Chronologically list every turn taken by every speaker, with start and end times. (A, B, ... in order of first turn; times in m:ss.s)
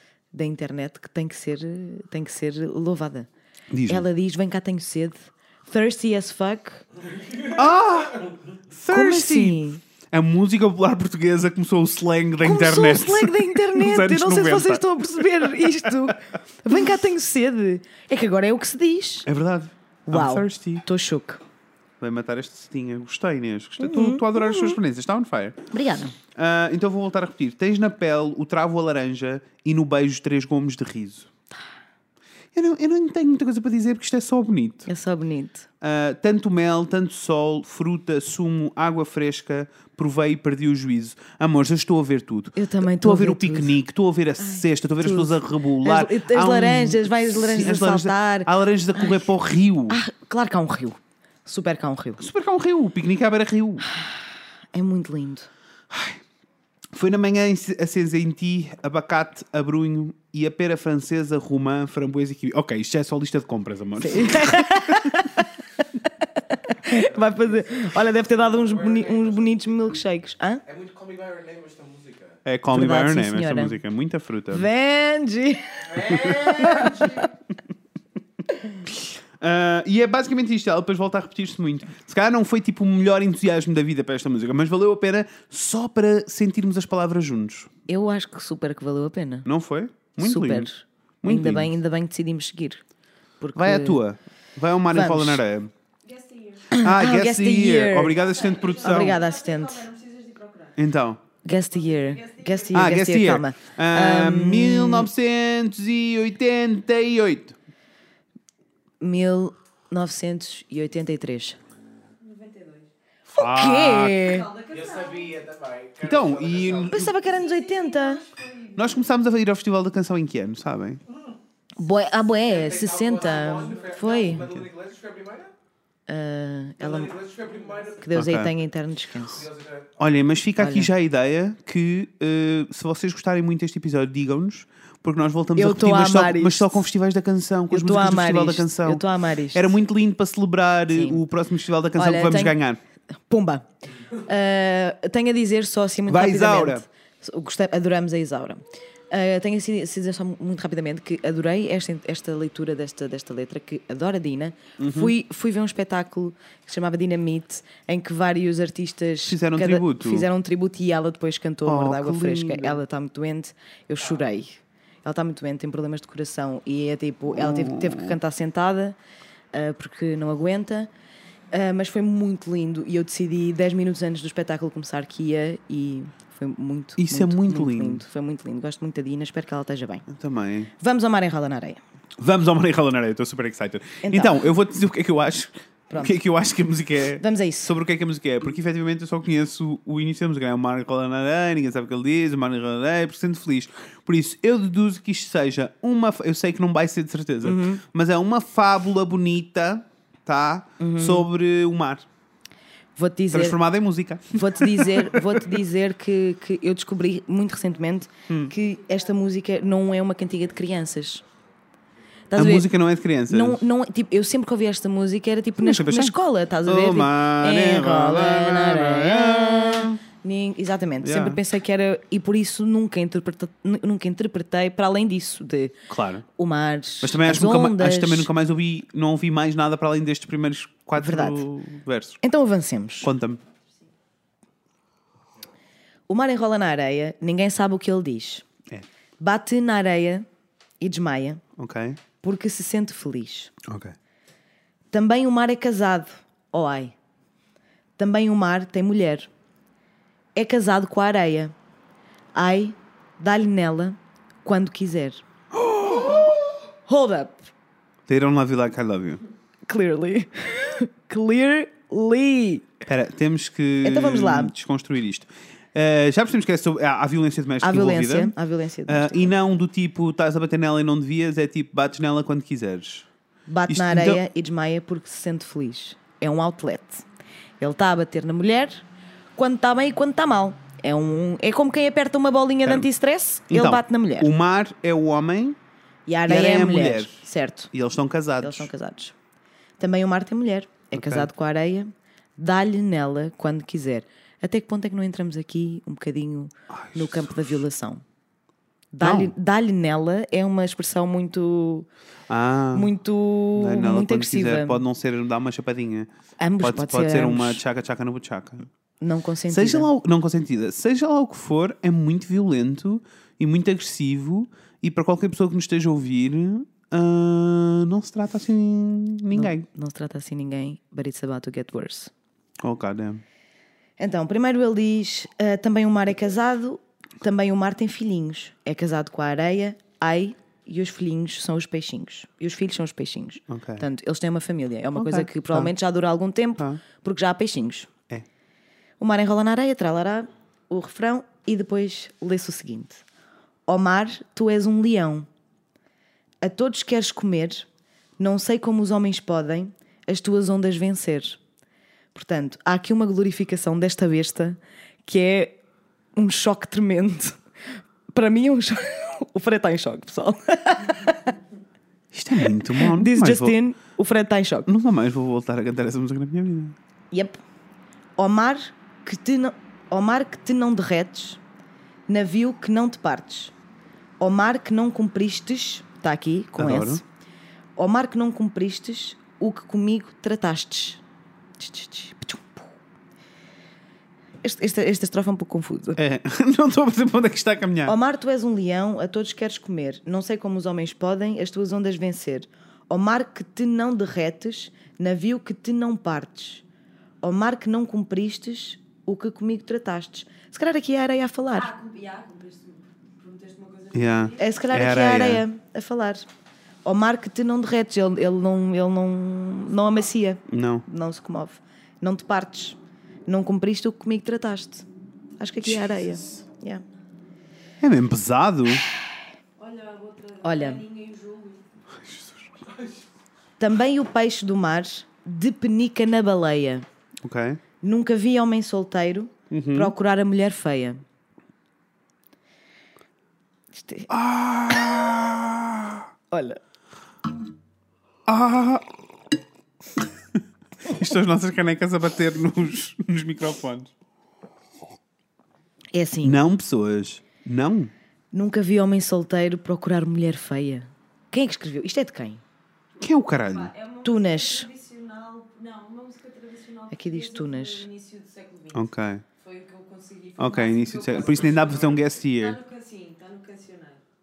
0:00.3-0:03.3 A
0:03.7-0:04.0 B
0:03.9-0:06.8 A
0:07.5-0:14.9 B
0:08.9-0:09.8 A
0:12.4-0:19.3 A
0:19.3-0:20.8 B
0:20.1-0:21.4 A
0:22.0-0:25.6 B
0:23.8-0:24.8 A
0:25.7-0:26.2 A
0:26.4-0:31.3 B
0:32.6-0:34.9 B
0:34.9-0:35.7 A
0:35.8-0:50.0 B
0:42.6-0:43.8 A
0:44.4-0:49.3 A
0:49.9-0:52.2 A
0:52.2-0:53.9 B
0:54.7-0:55.5 A
0:55.9-0:56.2 B
0:56.9-1:05.3 B
1:04.0-1:05.5 A
1:06.6-1:10.6 A
1:06.9-1:10.0 C
1:10.6-1:12.4 C
1:12.4-1:14.7 B
1:12.7-1:13.8 A
1:14.5-1:17.2 A
1:15.8-1:17.2 C
1:16.4-1:17.0 B
1:19.0-1:27.7 B
1:27.9-1:29.5 A
1:29.4-1:30.7 B
1:30.2-1:32.8 A
1:31.2-1:31.7 B
1:33.4-1:34.0 A
1:33.6-1:35.7 B
1:34.9-1:35.4 A
1:36.0-1:36.7 D
1:36.7-1:38.2 A
1:36.8-1:39.2 B
1:38.1-1:40.8 D
1:38.8-1:39.9 A
1:40.8-1:41.2 B
1:41.4-1:45.1 A
1:41.7-1:42.9 D
1:42.7-1:47.6 B
1:49.0-1:51.6 A
1:52.2-1:52.9 D
1:53.3-1:54.3 B
1:53.3-1:54.5 A
1:54.1-1:55.3 D
1:54.7-1:57.0 C
1:56.0-1:57.0 B
1:56.9-1:58.2 A
1:57.0-1:59.1 D
1:58.8-2:01.0 B
2:01.8-2:04.5 A
2:02.4-2:05.5 C
2:06.1-2:07.2 A
2:06.8-2:08.4 C
2:07.6-2:07.9 D
2:08.0-2:09.5 A
2:08.1-2:08.5 B
2:09.2-2:09.9 C
2:10.0-2:22.8 B
2:10.6-2:10.9 A
2:15.6-2:16.9 A
2:17.7-2:19.7 A
2:20.9-2:21.2 A
2:22.0-2:22.6 A
2:23.3-2:49.0 A
2:26.1-2:26.8 B
2:34.8-2:35.1 B
2:39.2-2:40.3 B
2:41.7-2:42.8 B
2:47.3-2:48.1 B
2:49.5-2:50.9 A
2:51.5-3:00.0 A
2:57.0-2:58.0 B
3:00.1-3:00.7 B
3:00.8-3:01.8 A
3:02.2-3:22.0 B
3:04.0-3:04.4 A
3:05.9-3:06.1 A
3:07.2-3:07.7 A
3:17.4-3:17.8 A
3:20.8-3:21.3 A
3:23.0-3:23.6 A
3:23.3-3:25.3 B
3:24.3-3:31.2 A
3:28.3-3:28.5 B
3:32.3-3:32.7 A
3:32.3-3:33.6 B
3:33.3-3:45.8 A
3:35.6-3:40.0 B
3:41.0-3:41.4 B
3:45.9-3:46.2 B
3:46.3-3:48.3 A
3:47.0-3:52.2 B
3:51.0-3:51.4 A
3:52.2-3:53.1 A
3:53.0-3:53.4 B
3:56.1-3:58.4 A
3:59.2-4:00.3 A
4:00.8-4:01.4 A
4:01.6-4:02.0 B
4:02.2-4:03.5 A
4:03.6-4:04.0 B
4:04.9-4:07.0 A
4:08.0-4:09.3 A
4:10.3-4:11.5 A
4:12.3-4:15.2 A
4:15.5-4:16.4 B
4:16.9-4:17.5 A
4:18.1-4:19.2 B
4:19.7-4:22.7 A
4:22.8-4:28.3 B
4:23.8-4:24.5 A
4:27.6-4:29.3 A
4:28.9-4:33.1 B
4:33.5-4:37.0 A
4:33.7-4:34.2 B
4:37.6-4:38.8 A
4:39.4-4:44.3 A
4:43.5-4:45.6 B
4:46.1-4:47.7 A
4:46.3-4:48.7 B
4:48.4-4:49.1 A
4:49.8-4:58.0 A
4:50.9-4:51.3 B
4:56.7-4:57.5 B
4:58.9-5:01.9 A
4:59.0-4:59.3 B
5:02.3-5:02.9 B
5:02.7-5:04.8 A
5:03.6-5:06.1 B
5:06.4-5:07.6 A
5:06.6-5:08.7 B
5:09.0-5:09.9 A
5:09.5-5:19.7 B
5:19.3-5:22.1 A
5:22.6-5:23.2 B
5:24.0-5:37.9 A
5:33.5-5:33.9 B
5:34.9-5:35.7 B
5:39.0-5:43.0 A
5:43.7-5:45.3 A
5:46.4-5:47.7 A
5:48.2-5:51.4 A
5:52.1-5:55.6 A
5:56.1-5:57.4 A
5:58.1-6:01.3 A
6:02.1-6:03.6 B
6:02.4-6:04.7 A
6:04.7-6:06.7 B
6:07.1-6:07.4 A
6:08.2-6:11.4 A
6:12.1-6:13.5 A
6:14.2-6:17.0 A
6:16.6-6:17.0 B
6:17.8-6:21.0 A
6:21.6-6:22.7 A
6:24.4-6:26.0 A
6:26.0-6:28.0 B
6:27.8-6:36.6 A
6:37.2-6:41.7 A
6:41.6-6:44.9 D
6:43.9-6:45.4 B
6:44.4-6:46.3 A
6:46.8-6:54.9 A
6:50.5-6:50.8 B
6:55.4-6:56.8 A
6:57.8-6:58.8 B
6:59.6-7:01.6 D
7:00.4-7:00.8 A
7:02.0-7:02.4 B
7:03.6-7:06.9 A
7:07.2-7:07.6 B
7:07.8-7:11.0 A
7:09.5-7:09.9 B
7:13.7-7:14.1 A
7:14.1-7:16.1 B
7:16.3-7:16.6 A
7:18.3-7:18.9 B
7:20.8-7:23.9 B
7:25.9-7:26.4 A
7:26.2-7:27.9 B
7:28.3-7:32.4 A
7:33.0-7:33.7 B
7:33.4-7:44.0 D
7:34.0-7:34.7 A
7:36.9-7:37.9 A
7:38.7-7:39.2 B
7:40.4-7:42.6 B